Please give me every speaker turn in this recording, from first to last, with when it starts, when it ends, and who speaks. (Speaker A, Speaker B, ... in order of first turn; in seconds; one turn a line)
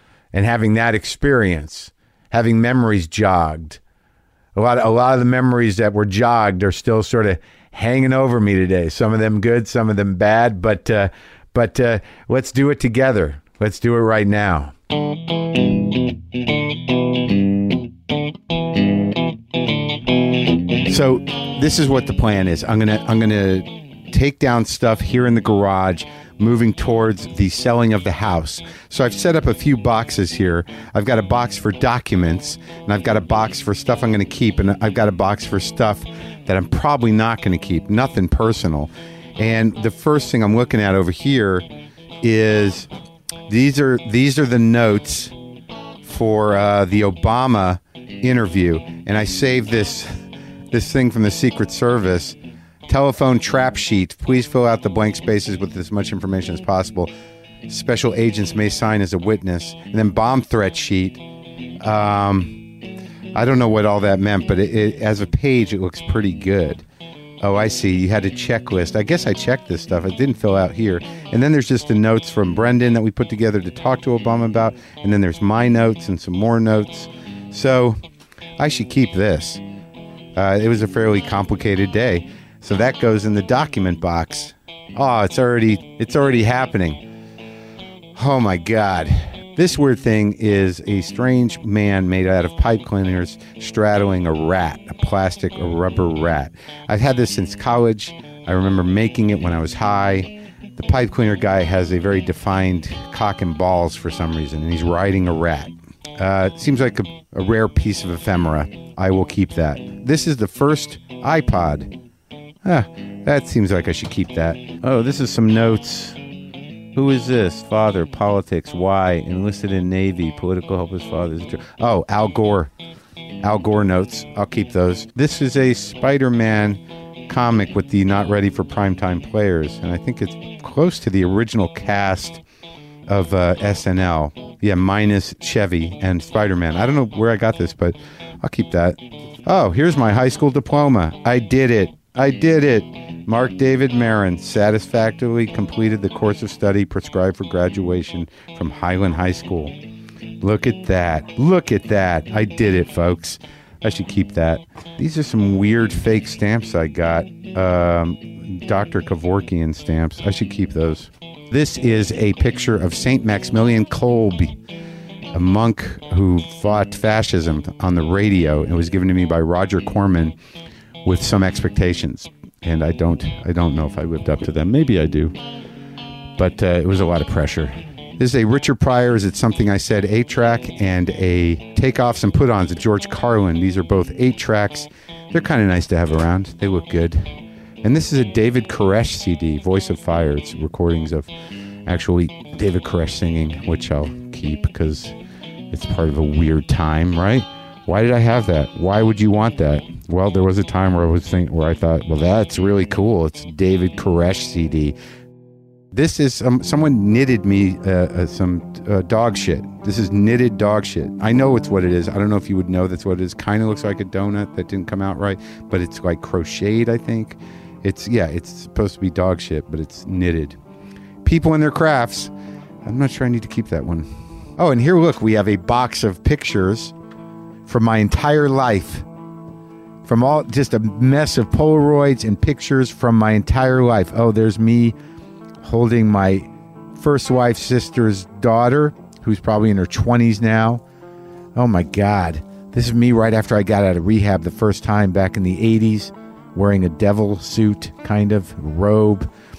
Speaker A: 0.3-3.8
Speaker A: 4.5-14.7
Speaker A: 20.8-41.7
Speaker A: 42.2-42.9
Speaker A: 43.5-45.3
Speaker A: 46.0-50.1
Speaker A: 50.7-52.4
Speaker A: 52.9-57.1
Speaker A: 57.7-61.2
Speaker A: 61.8-62.7
Speaker A: 63.3-66.8
Speaker A: 67.4-78.0
Speaker A: 78.6-79.6
Speaker A: 80.3-87.0
Speaker A: 88.2-111.9
Speaker A: 112.6-116.2
Speaker A: 116.9-122.7
Speaker A: 123.4-132.4
Speaker A: 133.1-149.7
Speaker A: 150.4-164.6
Speaker A: 165.3-170.3
Speaker A: 171.1-175.3
Speaker A: 176.4-187.2
Speaker A: 187.8-191.3
Speaker A: 191.9-195.1
Speaker A: 195.7-204.9
Speaker A: 205.9-220.6
Speaker A: 221.2-222.3
Speaker A: 222.8-224.1
Speaker A: 224.6-226.9
Speaker A: 227.7-229.1
Speaker A: 230.0-234.9
Speaker A: 235.6-240.8
Speaker A: 241.6-249.3